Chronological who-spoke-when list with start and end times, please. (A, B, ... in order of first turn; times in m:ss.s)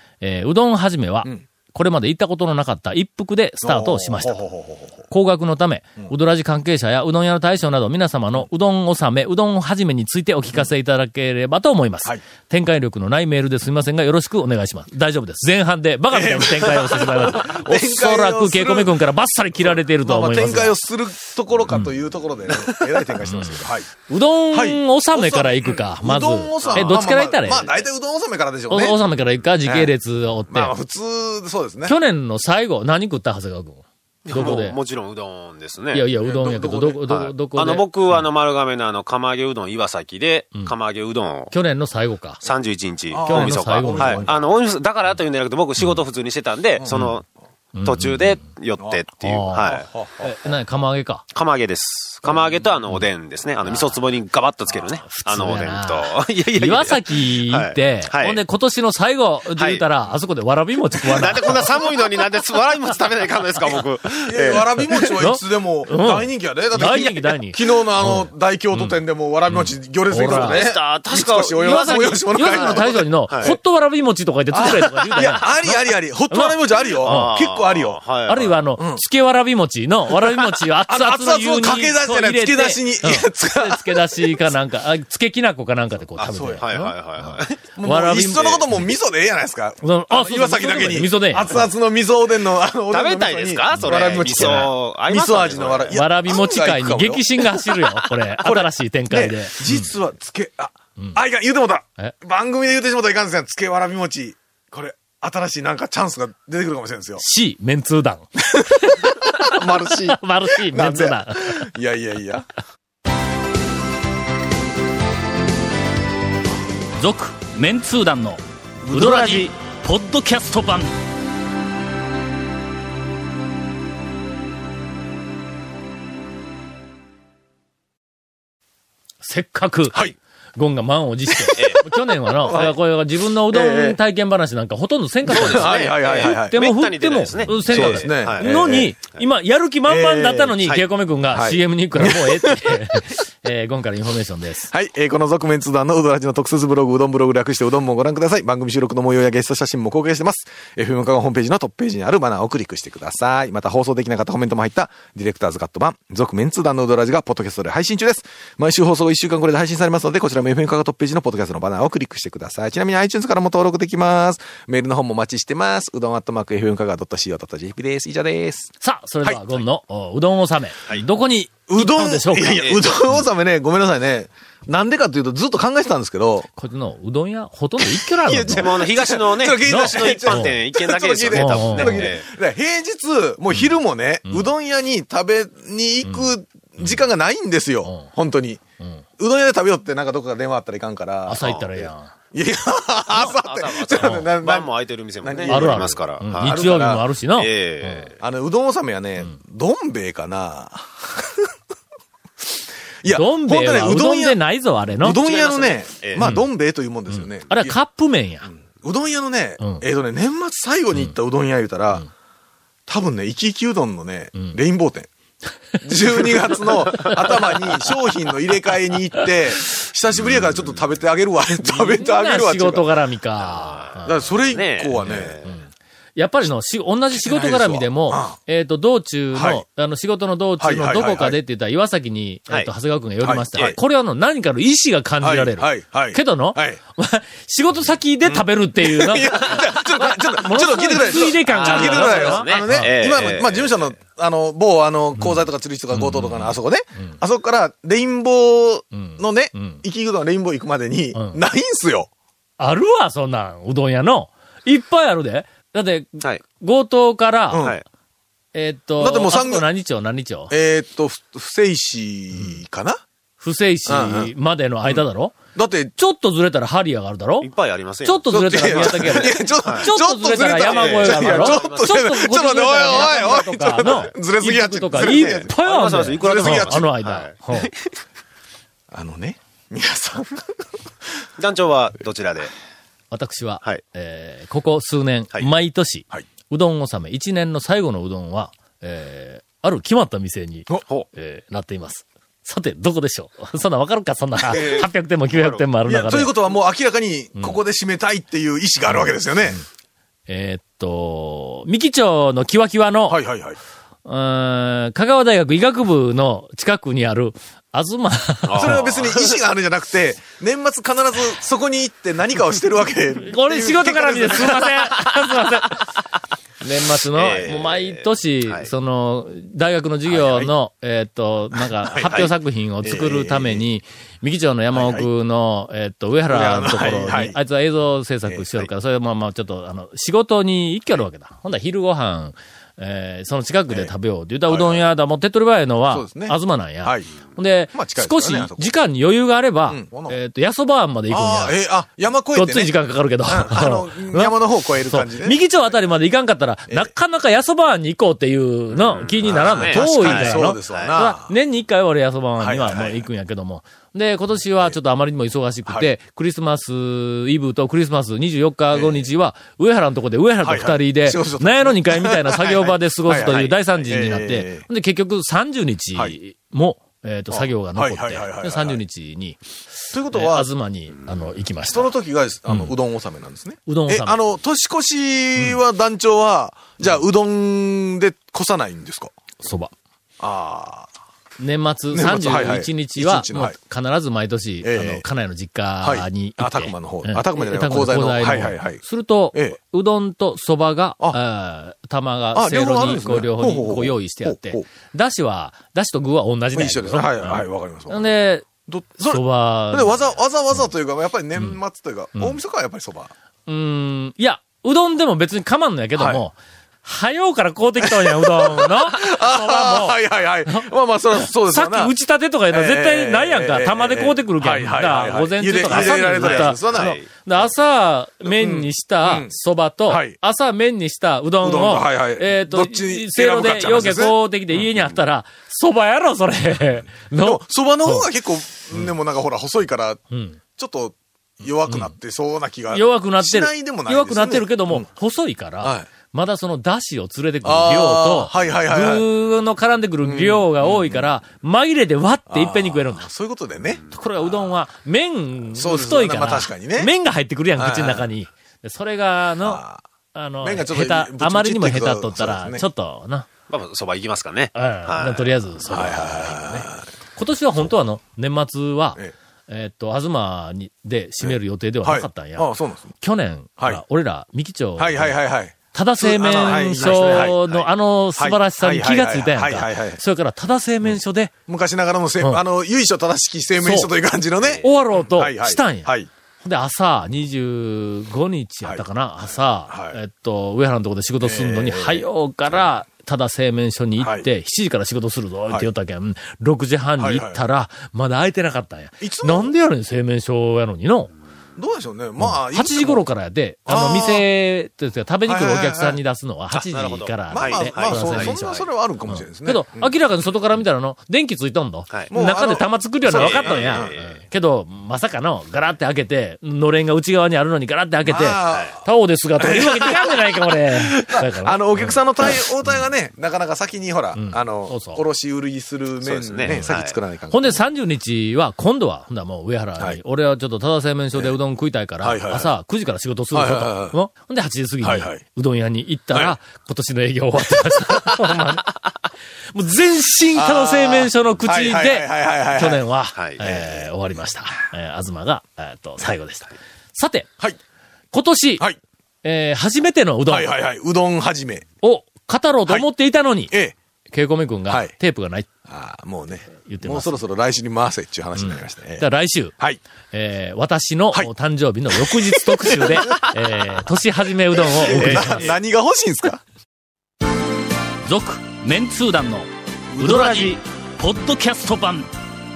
0:00.2-0:04.4 A
0:03.6-0:05.1 B
0:05.1-0:20.8 A
0:16.1-0:23.9 B
0:23.2-0:27.9 A
0:24.5-0:29.0 B
0:26.6-0:26.9 C
0:28.7-0:30.7 A
0:29.6-0:29.9 B
0:30.5-0:31.9 B
0:31.8-0:34.8 A
0:34.2-0:36.1 C
0:35.9-0:38.2 A
0:36.2-0:37.0 B
0:37.1-0:41.5 C
0:41.5-0:42.4 A
0:42.4-0:47.2 C
0:43.1-0:44.4 B
0:43.2-0:44.4 A
0:46.8-0:47.0 B
0:46.9-0:47.1 A
0:47.7-0:48.4 A
0:47.8-0:49.9 C
0:48.8-0:50.5 B
0:49.2-0:51.3 A
0:51.3-0:58.4 C
0:52.2-0:53.1 A
0:53.6-0:54.0 A
0:55.0-1:01.8 A
0:59.6-0:59.8 C
1:01.0-1:05.1 C
1:04.2-1:13.0 B
1:05.0-1:10.7 A
1:10.2-1:13.6 C
1:11.6-1:17.3 A
1:14.5-1:18.0 B
1:14.6-1:15.5 C
1:17.0-1:18.6 C
1:18.3-1:28.8 A
1:18.8-1:19.0 B
1:20.4-1:24.5 B
1:26.2-1:26.7 B
1:26.6-1:27.6 C
1:27.8-1:37.6 B
1:29.8-1:31.7 A
1:32.9-1:36.0 C
1:33.7-1:34.7 A
1:35.9-1:39.9 A
1:38.4-1:47.2 B
1:47.2-1:51.7 A
1:49.4-1:52.5 B
1:57.0-2:00.9 A
1:58.8-1:59.5 B
2:09.2-2:24.7 A
2:11.3-2:11.6 B
2:11.5-2:11.8 C
2:12.5-2:12.7 B
2:13.5-2:14.0 B
2:15.2-2:16.6 B
2:15.3-2:19.2 C
2:17.4-2:19.0 B
2:19.9-2:22.8 B
2:24.7-2:48.7 B
2:48.8-2:53.2 A
2:49.2-2:49.6 B
2:51.7-2:56.5 B
2:52.5-2:52.8 C
2:56.6-2:58.9 A
2:58.2-3:02.3 C
2:58.6-3:08.6 B
2:59.6-3:00.6 A
3:01.3-3:02.1 A
3:03.5-3:04.5 A
3:06.0-3:07.0 A
3:07.8-3:08.1 A
3:09.2-3:17.0 B
3:11.3-3:12.1 A
3:11.4-3:11.7 C
3:13.2-3:16.8 C
3:13.9-3:14.3 A
3:15.4-3:18.1 A
3:17.4-3:18.2 C
3:18.2-3:21.5 B
3:23.0-3:24.4 B
3:23.1-3:25.2 A
3:25.0-3:27.8 B
3:25.0-3:26.2 C
3:26.2-3:26.5 A
3:27.1-3:28.5 A
3:28.5-3:32.1 B
3:32.9-3:35.1 B
3:35.8-3:37.9 A
3:35.8-3:42.9 B
3:40.2-3:40.9 C
3:41.5-3:44.3 A
3:43.4-3:45.6 C
3:44.0-3:45.4 B
3:45.0-4:03.0 A
3:47.1-3:48.4 B
3:49.3-3:49.6 B
3:50.6-3:51.4 B
3:53.2-3:53.8 B
3:55.2-3:56.8 B
3:58.3-4:12.1 B
3:59.3-3:59.8 C
4:01.0-4:03.7 C
4:05.2-4:07.2 A
4:08.9-4:09.8 A
4:11.1-4:11.4 A
4:12.6-4:17.7 A
4:17.5-4:17.8 B
4:18.5-4:20.5 A
4:19.0-4:19.6 B
4:20.5-4:23.0 B
4:23.4-4:25.4 A
4:23.8-4:24.3 B
4:24.9-4:25.9 B
4:26.0-4:37.7 A
4:27.4-4:29.9 C
4:28.3-4:36.9 B
4:30.6-4:32.1 C
4:33.8-4:34.1 C
4:34.9-4:37.9 C
4:38.9-4:40.6 B
4:41.4-4:42.5 C
4:43.1-4:56.3 A
4:54.5-4:55.6 C
4:55.8-4:59.6 B
5:00.3-5:03.2 A
5:03.1-5:03.6 B
5:04.0-5:08.9 A
5:08.5-5:09.3 C
5:08.5-5:14.8 B
5:13.2-5:15.8 A
5:16.6-5:41.6 A
5:17.1-5:18.7 C
5:20.0-5:20.5 B
5:21.8-5:23.6 B
5:24.7-5:25.1 B
5:26.3-5:27.4 B
5:34.5-5:34.8 B
5:35.9-5:37.1 B
5:37.7-5:38.7 B
5:39.6-5:40.2 B
5:41.1-5:45.6 B
5:42.3-6:11.9 A
5:48.8-5:51.0 C
5:49.2-5:51.3 B
5:52.4-5:53.1 B
5:55.7-5:56.0 B
5:58.7-5:59.1 B
6:00.4-6:04.6 B
6:03.3-6:03.6 C
6:07.3-6:08.8 B
6:09.9-6:10.5 B
6:11.7-6:19.1 B
6:12.5-6:12.7 A
6:13.7-6:14.2 A
6:19.4-6:19.7 A
6:20.2-6:20.9 B
6:21.4-6:38.5 A
6:21.9-6:23.6 B
6:24.6-6:25.0 B
6:25.8-6:28.8 B
6:29.3-6:29.6 B
6:32.3-6:34.6 B
6:36.5-6:38.1 B
6:38.6-6:43.1 B
6:39.0-6:40.7 A
6:43.5-7:08.1 A
6:46.0-6:46.2 B
6:47.8-6:51.9 B
6:52.5-6:57.0 B
6:55.6-6:57.1 C
6:58.2-6:59.3 B
6:59.9-7:00.2 B
7:01.4-7:04.2 B
7:07.2-7:10.0 B
7:10.1-7:10.4 A
7:10.6-7:14.9 B
7:11.7-7:11.9 A
7:12.7-7:23.1 A
7:15.6-7:15.9 B
7:17.4-7:19.0 B
7:20.0-7:21.1 B
7:22.3-7:23.8 B
7:23.9-7:29.6 A
7:25.6-7:26.9 B
7:27.6-7:28.1 B
7:29.4-7:29.8 B
7:30.1-7:33.3 A
7:30.4-7:32.6 B
7:33.5-7:36.3 C
7:34.5-7:51.3 A
7:35.7-7:36.8 B
7:41.2-7:42.9 B
7:44.8-7:50.0 B
7:46.8-7:47.6 C
7:50.8-7:56.1 B
7:53.6-7:53.9 A
7:54.6-8:11.1 A
7:59.6-8:00.0 B
8:01.2-8:02.7 B
8:04.0-8:04.3 B
8:07.0-8:07.4 B
8:09.0-8:09.5 B
8:11.6-8:13.1 B
8:12.2-8:32.0 A
8:13.6-8:14.2 B
8:15.2-8:16.0 B
8:16.5-8:20.0 B
8:16.7-8:18.7 C
8:22.1-8:23.9 B
8:23.1-8:24.2 C
8:28.0-8:28.9 B
8:29.4-8:37.6 B
8:34.1-8:35.0 A
8:36.0-8:37.0 C
8:37.3-8:48.8 A
8:42.0-8:42.5 B
8:43.3-8:44.0 B
8:44.8-8:45.2 B
8:49.5-8:57.3 A
8:50.3-8:52.8 B
8:53.2-8:53.5 C
8:53.4-8:53.9 B
8:58.1-8:58.6 A
8:59.2-9:00.5 A
9:00.3-9:01.6 B
9:01.8-9:03.5 A
9:03.5-9:03.7 B
9:04.1-9:05.5 A
9:04.7-9:04.9 B
9:05.7-9:09.0 B
9:06.6-9:07.2 A
9:08.4-9:09.5 A
9:10.1-9:15.5 A
9:12.0-9:13.1 B
9:14.8-9:16.4 B
9:14.8-9:15.5 C
9:18.0-9:22.1 A
9:20.0-9:20.5 B